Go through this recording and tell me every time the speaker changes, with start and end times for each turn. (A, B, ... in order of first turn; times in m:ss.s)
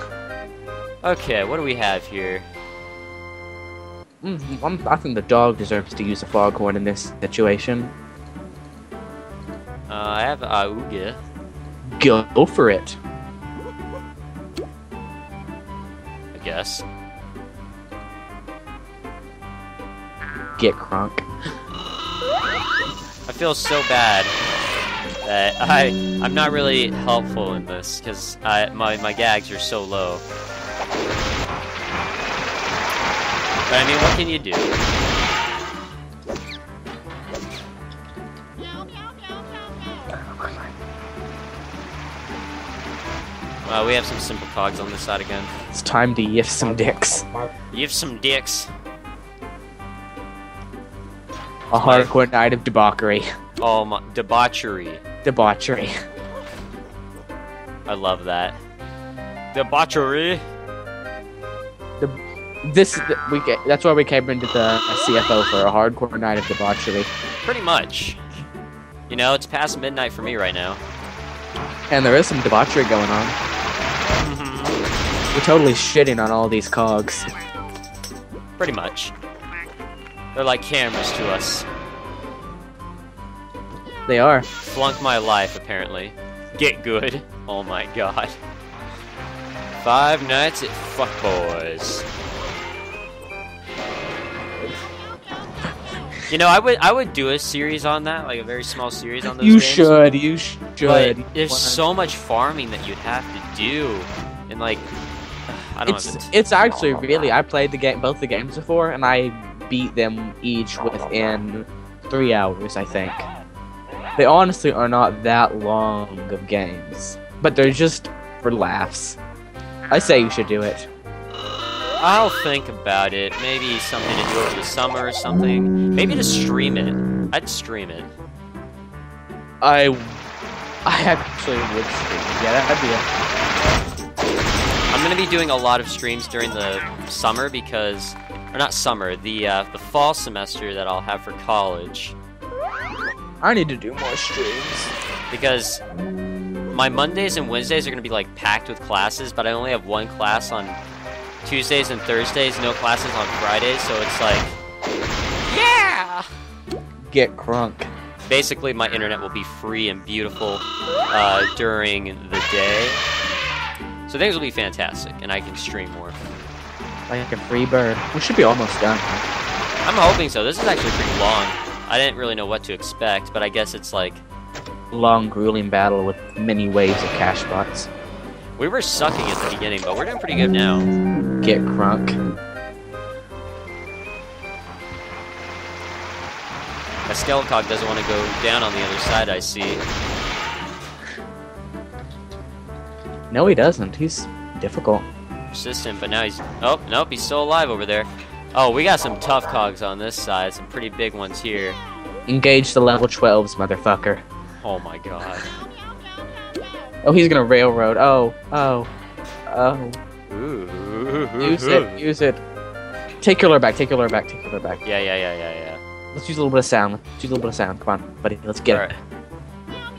0:01.0-0:02.5 A
0:04.2-0:07.9 B
0:09.9-0:11.2 A
0:12.0-0:13.0 B
0:16.3-0:16.8 A
0:20.6-0:21.2 B
0:23.3-0:24.4 A
0:25.2-0:30.2 A
0:33.7-0:34.8 A
0:43.6-0:45.5 A
0:45.7-0:47.3 B
0:47.7-0:48.7 A
0:51.7-0:53.3 B
0:51.7-0:52.1 A
0:53.6-0:55.0 A
0:55.2-0:55.9 B
0:57.8-0:58.6 A
0:59.5-1:00.4 A
1:02.0-1:07.1 B
1:07.4-1:08.2 A
1:09.1-1:10.8 A
1:11.9-1:13.4 B
1:14.2-1:14.9 A
1:15.3-1:17.3 B
1:18.6-1:19.1 A
1:20.3-1:21.7 A
1:24.1-1:24.5 B
1:24.6-1:28.4 A
1:29.7-1:32.0 A
1:36.3-1:39.9 A
1:39.2-1:41.8 B
1:40.8-1:44.9 A
1:45.5-1:46.3 A
1:45.8-1:53.2 B
1:54.2-1:59.2 B
1:59.9-2:00.9 B
2:02.0-2:08.1 A
2:09.6-2:10.2 B
2:10.8-2:13.0 B
2:14.9-2:22.2 A
2:23.4-2:24.9 B
2:25.3-2:25.8 A
2:26.7-2:30.8 A
2:31.4-2:34.6 A
2:35.4-2:36.3 A
2:37.1-2:37.9 B
2:38.2-2:43.0 A
2:44.1-2:46.2 A
2:47.1-2:49.2 B
2:49.8-2:54.2 A
2:54.9-2:57.9 B
2:58.6-3:00.9 A
3:01.4-3:02.1 B
3:07.0-3:09.8 A
3:13.3-3:15.1 B
3:15.5-3:21.8 A
3:22.3-3:24.2 B
3:24.6-3:25.5 A
3:27.0-3:28.9 B
3:29.5-3:30.0 B
3:30.3-3:32.0 A
3:31.4-3:32.4 B
3:33.2-3:34.8 B
3:34.8-3:35.8 A
3:36.1-3:38.9 B
3:38.7-3:38.9 A